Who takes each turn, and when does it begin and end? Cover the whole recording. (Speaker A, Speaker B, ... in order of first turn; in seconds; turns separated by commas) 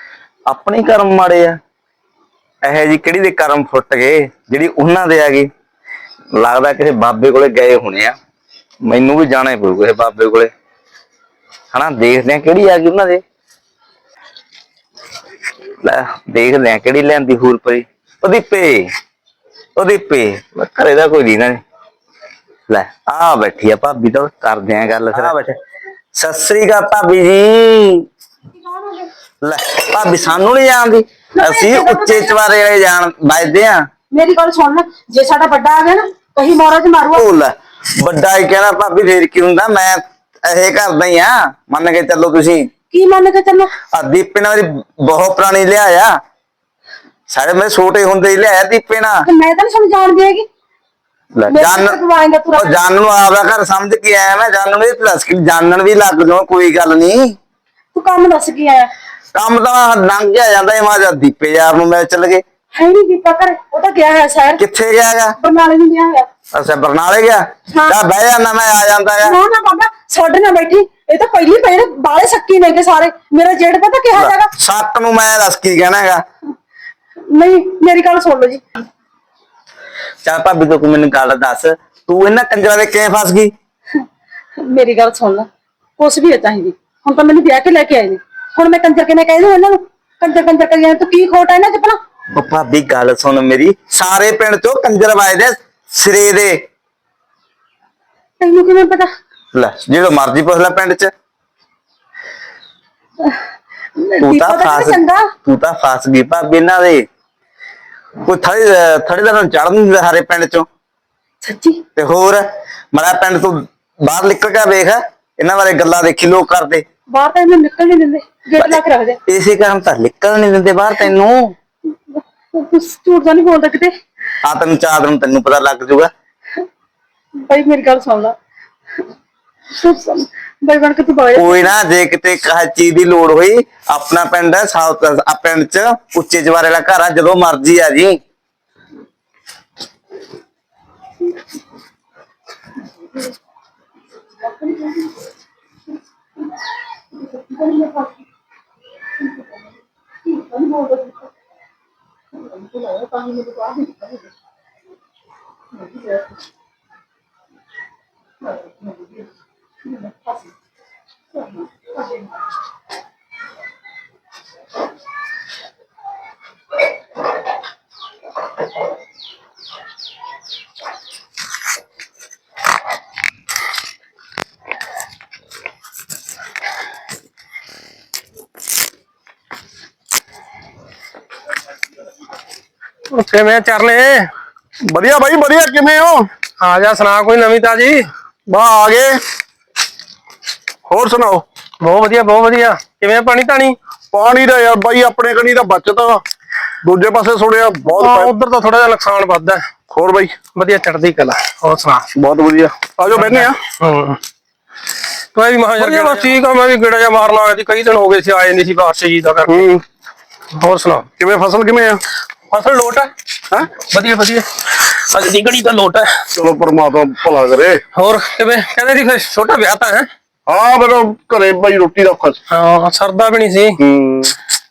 Speaker A: 0.5-1.6, Speaker A: 2.6-5.5, Speaker A: 6.4-8.2, Speaker A: 8.8-10.5, Speaker A: 11.7-13.2, Speaker A: 15.8-18.9, Speaker A: 19.8-21.6, Speaker A: 22.7-25.5, Speaker A: 26.1-28.0, Speaker B: 28.5-29.1, Speaker A: 29.4-33.9, Speaker B: 31.3-32.4, Speaker B: 34.1-37.2, Speaker A: 37.1-42.7, Speaker B: 42.9-43.7, Speaker A: 43.9-46.1, Speaker A: 47.3-49.2, Speaker B: 49.2-50.5, Speaker A: 51.4-52.0, Speaker B: 51.5-52.8, Speaker A: 52.5-57.4, Speaker B: 57.9-58.9, Speaker A: 59.3-62.4, Speaker B: 62.7-64.6, Speaker A: 64.6-65.3, Speaker B: 65.4-66.3, Speaker A: 66.5-69.3, Speaker B: 67.7-68.0, Speaker B: 69.2-74.5, Speaker A: 74.1-76.2, Speaker B: 77.3-78.6, Speaker A: 80.2-83.5, Speaker B: 84.6-92.0, Speaker A: 92.3-96.6, Speaker B: 98.4-99.1, Speaker A: 99.5-101.1, Speaker B: 104.0-105.3, Speaker A: 104.2-107.0, Speaker A: 108.2-110.7, Speaker B: 111.4-111.8, Speaker A: 112.0-116.8, Speaker B: 117.1-119.2, Speaker A: 118.6-121.5, Speaker B: 122.1-123.9, Speaker A: 124.4-126.1, Speaker B: 127.4-128.3, Speaker B: 129.7-131.7, Speaker A: 131.3-138.2, Speaker B: 147.5-148.1, Speaker B: 150.3-151.2, Speaker B: 152.7-154.1, Speaker C: 183.1-184.3, Speaker D: 184.8-186.3, Speaker C: 186.6-188.1, Speaker D: 188.5-189.2, Speaker D: 190.9-191.4, Speaker C: 191.8-193.8, Speaker D: 194.1-196.2, Speaker D: 196.8-198.3, Speaker C: 197.9-199.6, Speaker D: 199.9-200.4, Speaker C: 200.5-202.1, Speaker D: 202.2-203.6, Speaker C: 203.1-204.2, Speaker C: 205.3-209.7, Speaker D: 205.8-206.1, Speaker D: 209.5-209.8, Speaker C: 210.6-211.1, Speaker D: 211.2-212.0, Speaker C: 212.5-213.1, Speaker C: 213.8-216.2, Speaker D: 216.3-217.8, Speaker C: 217.9-220.1, Speaker D: 220.5-222.4, Speaker C: 222.5-223.8, Speaker D: 223.8-224.3